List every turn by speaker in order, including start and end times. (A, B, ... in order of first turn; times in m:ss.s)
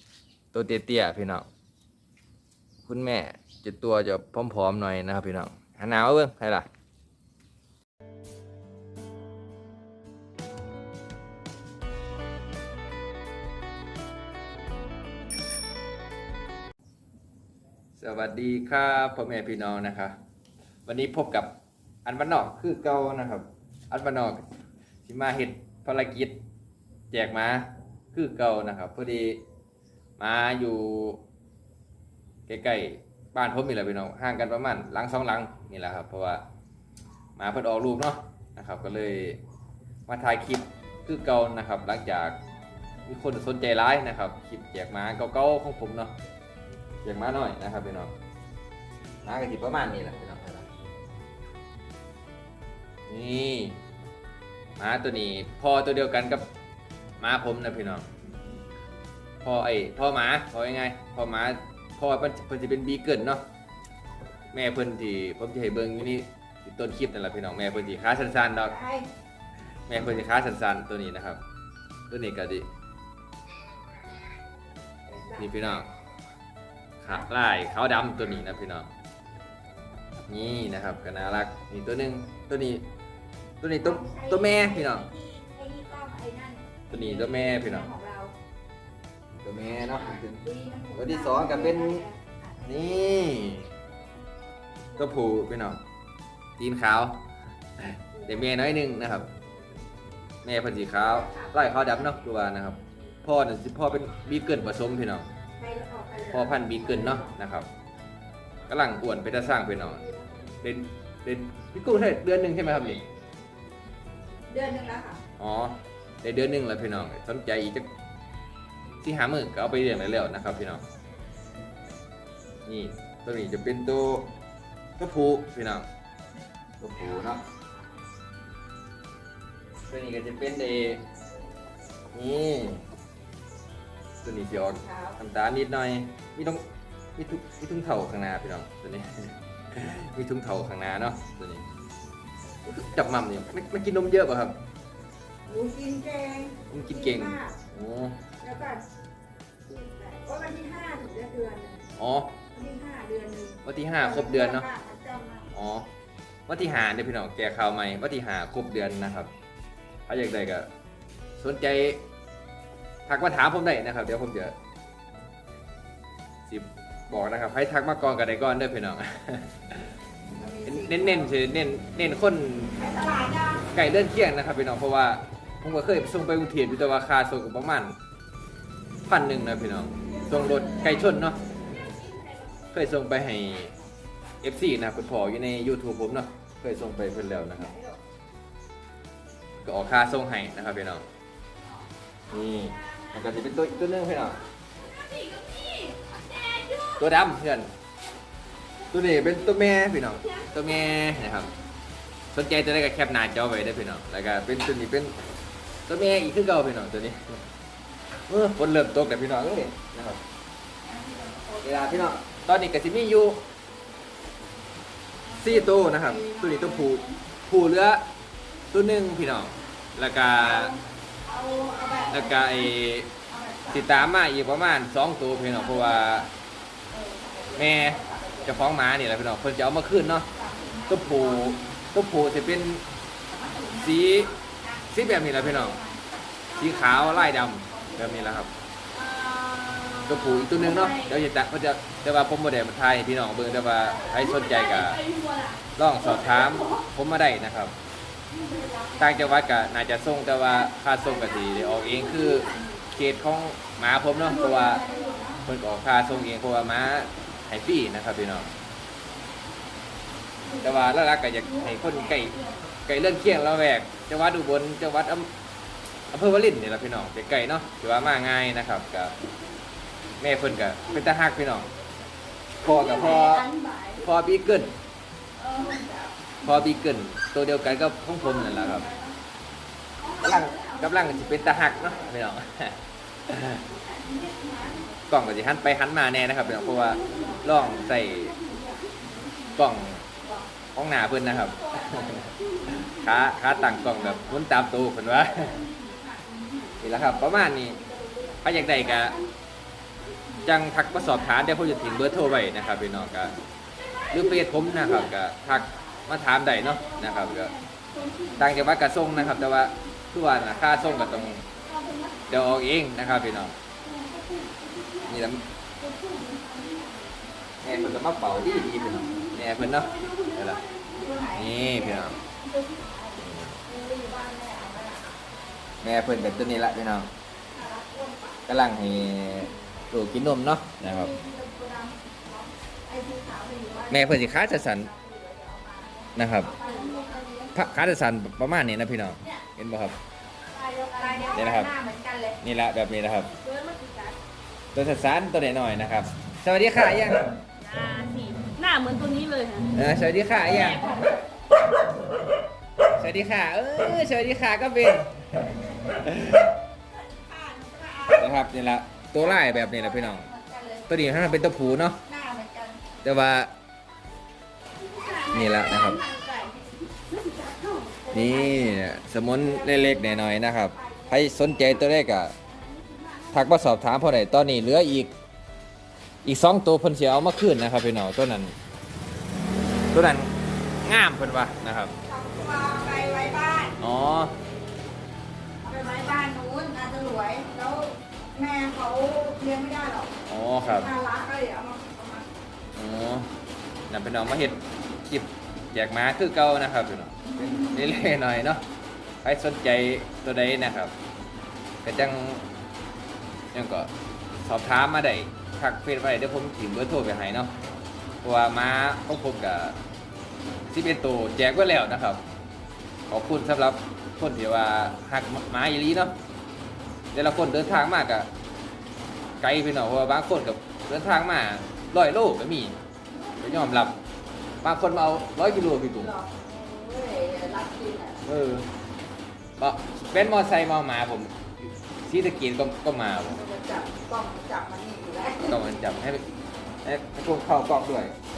0:00.5-0:01.4 A
0:02.8-0:06.7 A
0:18.0-0:20.2 A
0:20.8-0:21.5 A
0:22.0-0:24.4 A
0:25.0-0:26.4 A
0:27.1-0:29.4 A
0:30.2-0:31.2 A
0:32.5-0:36.4 A
0:37.4-0:39.4 A
0:40.1-0:42.4 A
0:43.0-0:46.1 A
0:47.0-0:48.1 A
0:49.2-0:50.7 A
0:53.1-0:53.8 A
0:54.8-0:56.4 A
0:57.2-0:58.0 A
0:59.4-1:03.4 A
1:04.5-1:08.7 A
1:08.7-1:09.1 B
1:09.9-1:11.4 A
1:12.1-1:12.7 A
1:15.1-1:15.5 B
1:15.4-1:15.9 A
1:17.0-1:18.9 A
1:20.3-1:22.8 A
1:23.6-1:25.1 A
1:23.8-1:28.3 B
1:26.9-1:27.9 A
1:29.4-1:30.4 A
1:30.2-1:32.4 B
1:30.9-1:32.0 A
1:32.6-1:33.7 A
1:35.0-1:35.8 A
1:36.6-1:37.2 A
1:37.8-1:39.3 A
1:38.2-1:38.4 B
1:40.4-1:45.3 A
1:41.0-1:42.2 B
1:45.6-1:47.4 B
1:46.3-1:47.7 A
1:48.7-1:50.0 A
1:50.0-1:50.4 B
1:50.6-1:53.0 A
1:54.5-1:55.2 B
1:55.4-1:57.9 A
1:59.0-2:00.8 A
2:02.6-2:04.3 A
2:05.0-2:05.9 A
2:06.8-2:07.4 A
2:09.9-2:11.0 A
2:12.1-2:12.8 A
2:14.2-2:16.6 A
2:14.6-2:15.2 B
2:17.2-2:21.6 A
2:22.6-2:24.6 A
2:25.5-2:27.6 B
2:26.7-2:28.2 A
2:28.4-2:28.8 B
2:29.7-2:31.9 B
2:32.0-2:32.3 A
2:32.5-2:35.5 B
2:33.6-2:34.7 A
2:35.5-2:35.9 A
2:36.5-2:39.3 A
2:40.1-2:40.7 A
2:41.4-2:42.0 A
2:43.1-2:44.5 A
2:46.5-2:49.9 A
2:50.3-2:51.3 B
2:50.6-2:52.8 A
2:52.8-2:53.6 B
2:53.6-2:58.0 A
2:59.1-3:01.4 A
3:00.1-3:01.1 B
3:02.7-3:03.7 A
3:04.4-3:07.8 A
3:07.6-3:07.9 B
3:09.6-3:11.0 A
3:12.3-3:14.4 A
3:12.7-3:13.5 C
3:14.8-3:17.0 C
3:17.0-3:17.7 A
3:18.9-3:21.5 A
3:20.3-3:21.1 C
3:22.3-3:25.1 A
3:25.8-3:27.4 A
3:28.3-3:30.2 A
3:30.9-3:32.1 B
3:31.6-3:33.4 A
3:35.3-3:37.1 B
3:35.4-3:38.0 A
3:38.7-3:40.7 A
3:40.3-3:42.7 B
3:42.1-3:43.1 A
3:43.3-3:44.0 B
3:43.7-3:46.3 A
3:45.4-3:46.2 B
3:46.9-3:48.7 B
3:47.5-3:50.3 A
3:50.3-3:51.8 B
3:50.9-3:52.8 A
3:53.3-3:56.0 B
3:53.7-3:54.3 A
3:54.9-3:55.8 A
3:56.5-3:58.5 A
3:56.6-3:57.1 C
3:56.8-3:58.5 B
3:58.9-4:01.2 C
4:00.0-4:05.0 A
4:03.8-4:04.2 B
4:03.9-4:06.8 C
4:05.7-4:07.8 A
4:08.3-4:09.2 B
4:09.0-4:14.8 A
4:10.7-4:12.9 C
4:14.2-4:15.4 B
4:14.3-4:15.3 C
4:15.4-4:18.5 A
4:20.4-4:20.8 C
4:20.6-4:25.3 A
4:21.4-4:22.5 C
4:26.1-4:29.1 A
4:30.2-4:31.7 A
4:32.6-4:33.5 A
4:32.6-4:34.1 C
4:34.0-4:34.7 A
4:35.4-4:35.7 C
4:35.5-4:36.3 B
4:36.4-4:38.9 A
4:38.2-4:38.8 C
4:38.6-4:39.1 B
4:40.0-4:42.0 C
4:40.2-4:41.8 B
4:40.2-4:43.6 A
4:43.6-4:44.9 C
4:44.9-4:48.3 A
4:46.5-4:49.6 C
4:47.0-4:47.5 B
4:49.5-4:50.0 A
4:50.7-4:55.6 A
4:51.5-4:54.4 C
4:55.3-4:57.4 C
4:56.8-4:57.8 A
4:57.8-4:58.3 B
4:57.9-4:59.3 C
4:58.4-4:59.2 A
5:00.1-5:03.0 C
5:00.4-5:03.4 A
5:03.8-5:05.1 C
5:04.1-5:07.5 A
5:04.8-5:06.1 B
5:06.5-5:09.7 C
5:08.4-5:11.5 A
5:10.5-5:12.6 C
5:12.3-5:13.5 A
5:13.8-5:21.5 C
5:15.1-5:15.4 A
5:17.6-5:20.6 A
5:20.9-5:23.1 B
5:21.3-5:22.2 A
5:23.2-5:23.6 A
5:23.6-5:25.2 B
5:25.8-5:27.1 A
5:26.0-5:26.6 B
5:27.5-5:29.6 B
5:28.5-5:31.1 A
5:30.8-5:37.3 B
5:33.9-5:34.9 A
5:36.1-5:36.5 A
5:36.5-5:37.5 C
5:37.5-5:40.0 A
5:40.6-5:41.4 C
5:40.7-5:42.4 B
5:41.3-5:41.7 A
5:42.4-5:43.3 A
5:43.4-5:44.2 C
5:44.7-5:47.4 A
5:47.6-5:49.7 C
5:49.7-5:50.9 A
5:50.5-5:51.0 C
5:50.7-5:51.1 B
5:52.9-5:56.5 A
5:56.9-5:58.6 B
5:58.2-6:00.3 A
5:59.1-6:02.9 B
6:00.9-6:02.0 A
6:03.0-6:03.5 A
6:04.8-6:08.7 C
6:05.3-6:06.0 A
6:08.1-6:12.3 A
6:08.3-6:10.0 B
6:10.8-6:11.6 B
6:12.5-6:13.3 C
6:13.3-6:15.1 A
6:16.2-6:18.6 A
6:19.9-6:20.3 A
6:20.8-6:22.0 A
6:22.0-6:23.8 B
6:23.8-6:24.3 A
6:25.6-6:32.3 B
6:30.2-6:30.9 A
6:32.7-6:33.3 A
6:33.9-6:38.6 A
6:37.3-6:37.8 B
6:39.2-6:40.9 A
6:41.8-6:42.4 A
6:43.5-6:47.5 A
6:48.2-6:49.8 A
6:50.7-6:52.2 A
6:53.1-6:56.2 A
6:57.1-6:58.3 A
6:59.4-7:02.8 A
7:03.2-7:03.7 B
7:03.4-7:04.0 A
7:04.6-7:06.1 A
7:06.0-7:08.2 B
7:08.2-7:08.7 A
7:09.6-7:13.4 A
7:13.2-7:15.6 B
7:15.4-7:16.2 A
7:16.8-7:18.1 A